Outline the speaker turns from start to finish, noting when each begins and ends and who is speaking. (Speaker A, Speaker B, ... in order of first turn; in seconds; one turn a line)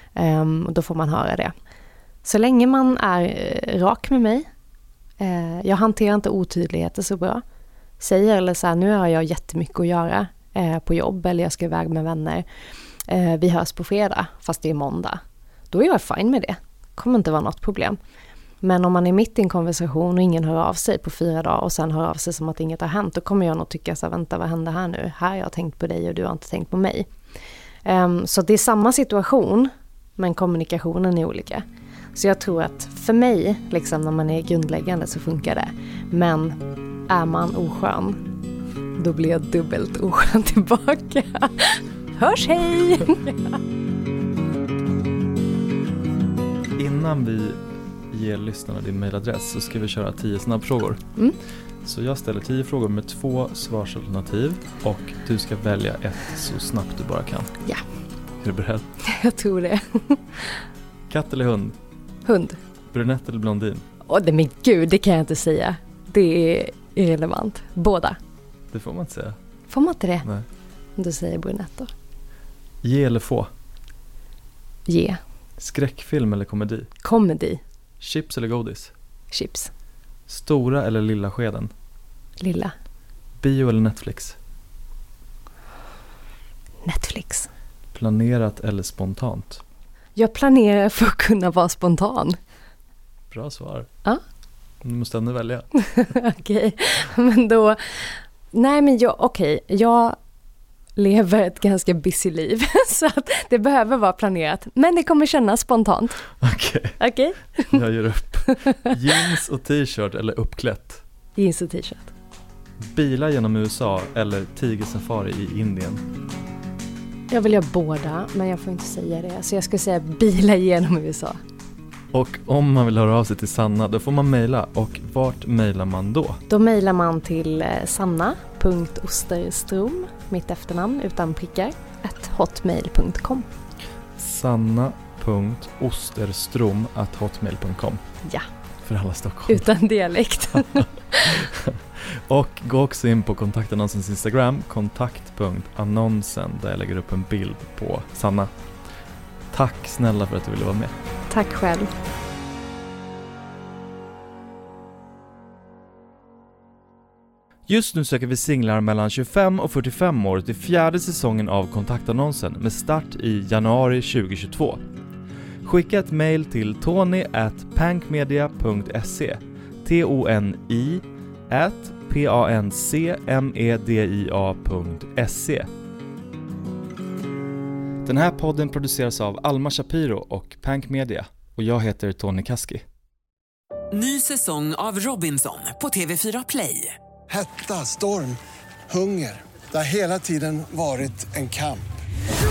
Speaker A: 0.2-1.5
Speaker A: 2.2-4.5
Speaker A: 5.2-7.4
Speaker A: 8.0-12.4
Speaker A: 13.1-15.2
Speaker A: 15.7-18.0
Speaker A: 18.6-27.1
Speaker A: 27.9-36.6
Speaker A: 37.1-38.2
Speaker A: 39.0-43.6
Speaker B: 46.8-47.6
Speaker B: 48.1-51.0
Speaker B: 51.9-57.5
Speaker B: 58.4-58.9
Speaker A: 59.0-60.6
Speaker B: 61.1-61.8
Speaker A: 62.2-62.6
Speaker B: 62.9-63.8
Speaker A: 64.1-68.2
Speaker B: 68.7-69.4
Speaker A: 69.7-70.3
Speaker A: 71.0-71.9
Speaker B: 72.8-73.5
Speaker A: 74.9-75.2
Speaker B: 75.6-76.9
Speaker A: 77.0-77.6
Speaker B: 78.0-78.9
Speaker A: 79.3-79.7
Speaker B: 80.3-81.7
Speaker A: 82.4-82.7
Speaker B: 83.4-84.4
Speaker A: 86.8-87.5
Speaker B: 87.9-89.6
Speaker A: 90.2-92.4
Speaker B: 93.3-93.9
Speaker B: 94.8-95.7
Speaker A: 95.8-100.2
Speaker A: 101.0-106.2
Speaker B: 106.4-107.0
Speaker A: 107.0-107.8
Speaker B: 107.7-111.0
Speaker A: 108.5-108.9
Speaker A: 111.4-112.1
Speaker B: 112.8-116.0
Speaker A: 117.3-121.4
Speaker B: 122.1-126.4
Speaker A: 126.5-133.5
Speaker B: 134.2-138.0
Speaker B: 138.9-139.7
Speaker A: 139.5-141.5
Speaker B: 141.3-148.5
Speaker B: 149.5-150.9
Speaker A: 151.3-151.9
Speaker B: 157.7-164.8
Speaker B: 165.6-175.7
Speaker B: 178.1-182.8
Speaker C: 183.9-186.9
Speaker D: 187.3-188.4
Speaker D: 188.9-191.8